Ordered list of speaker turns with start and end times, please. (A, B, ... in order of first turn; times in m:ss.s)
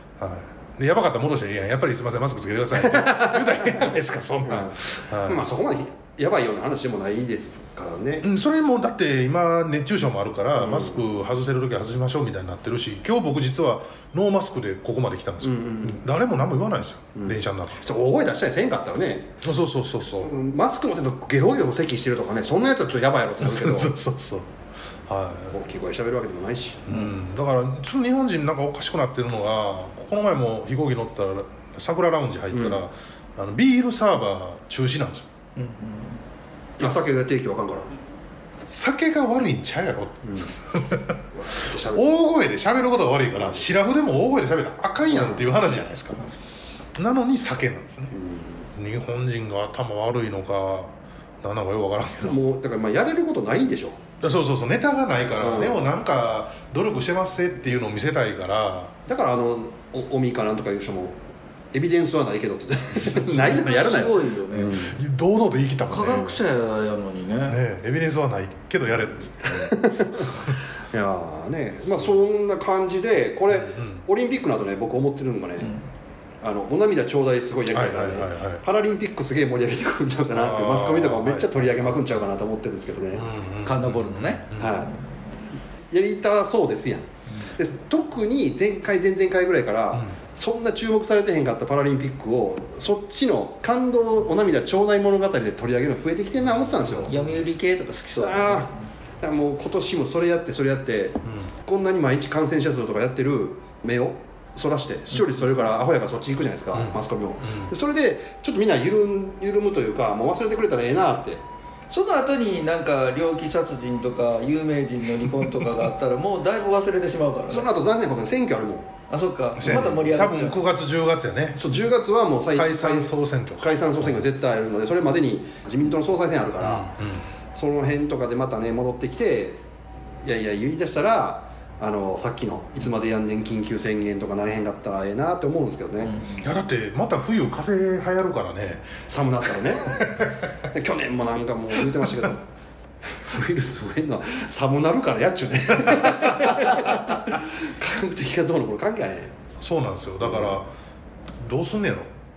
0:00.2-0:05.5 A
0:02.8-0:03.8 B
0:04.4-0:08.3 B
0:08.2-0:17.8 A
0:10.6-0:11.0 B
0:15.4-0:16.0 B
0:17.2-0:19.4 B
0:19.4-0:20.3 A
0:20.0-0:23.9 B
0:23.4-0:24.5 A
0:25.0-0:25.5 A
0:25.5-0:27.1 B
0:26.9-0:35.2 A
0:32.5-0:32.8 B
0:35.6-0:36.2 C
0:36.8-0:37.9 B
0:38.6-0:41.2 A
0:40.2-0:40.5 B
0:41.3-0:42.1 B
0:41.7-0:46.3 A
0:45.1-0:45.4 B
0:47.0-0:48.2 A
0:48.1-0:48.7 B
0:48.8-0:52.4 A
0:52.2-0:54.0 B
0:54.2-0:58.9 A
0:55.4-0:55.8 B
0:59.1-1:01.2 B
1:01.7-1:05.0 B
1:03.2-1:04.8 C
1:04.6-1:06.4 A
1:05.9-1:07.6 C
1:07.5-1:10.5 A
1:09.4-1:15.7 B
1:13.5-1:14.0 A
1:16.4-1:23.3 B
1:17.7-1:18.6 A
1:20.3-1:22.1 A
1:23.1-1:24.7 A
1:23.6-1:24.6 C
1:24.6-1:24.9 B
1:25.9-1:37.2 B
1:36.4-1:37.4 A
1:37.1-1:38.8 C
1:38.2-1:38.7 B
1:39.2-1:51.4 B
1:41.2-1:41.5 A
1:45.1-1:45.4 C
1:46.7-1:47.7 A
1:51.9-1:57.6 C
1:57.5-1:58.9 B
1:59.1-2:00.6 C
1:59.6-2:01.6 A
2:01.5-2:06.9 B
2:02.5-2:04.2 A
2:06.6-2:07.2 A
2:07.5-2:09.6 B
2:10.2-2:16.1 B
2:16.0-2:16.5 C
2:16.4-2:18.9 A
2:19.1-2:20.0 B
2:19.8-2:20.4 A
2:20.6-2:22.4 B
2:21.8-2:22.1 A
2:23.2-2:29.3 B
2:29.6-2:30.7 A
2:30.2-2:30.6 B
2:31.4-2:32.1 A